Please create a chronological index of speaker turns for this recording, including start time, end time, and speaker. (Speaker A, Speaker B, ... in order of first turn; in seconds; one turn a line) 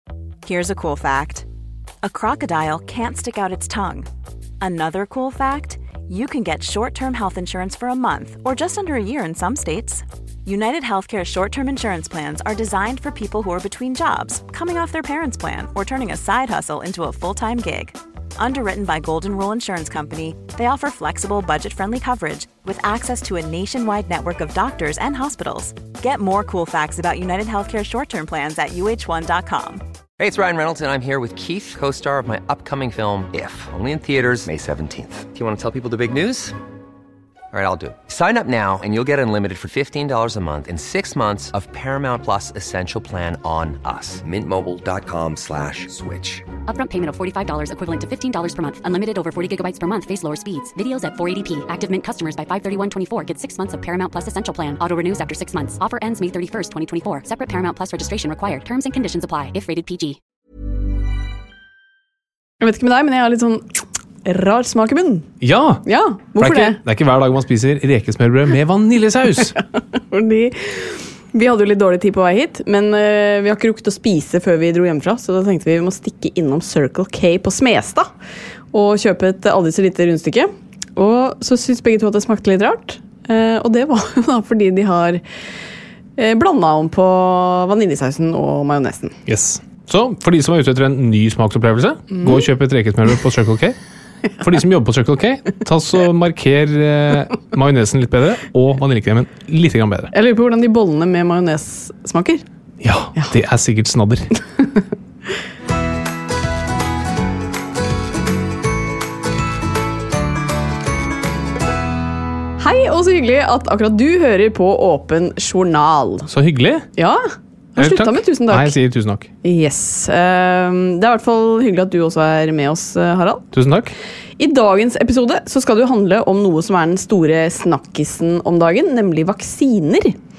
Speaker A: 0.5-1.5
Speaker A: 2.0-4.1
Speaker A: 4.6-29.8
Speaker B: 30.2-36.6
Speaker B: 37.5-46.5
Speaker C: 46.7-60.2
Speaker D: 62.6-65.3
Speaker E: 65.4-65.8
Speaker D: 65.8-66.8
Speaker E: 66.4-69.6
Speaker D: 70.1-78.1
Speaker D: 78.7-85.2
Speaker D: 86.2-89.2
Speaker E: 89.3-93.8
Speaker D: 92.1-92.4
Speaker E: 94.4-100.1
Speaker D: 100.1-102.4
Speaker E: 102.8-104.3
Speaker D: 112.6-116.3
Speaker E: 116.3-116.9
Speaker D: 117.0-117.2
Speaker D: 117.8-118.7
Speaker E: 117.8-119.3
Speaker D: 119.4-123.4
Speaker E: 123.5-123.9
Speaker D: 124.4-130.2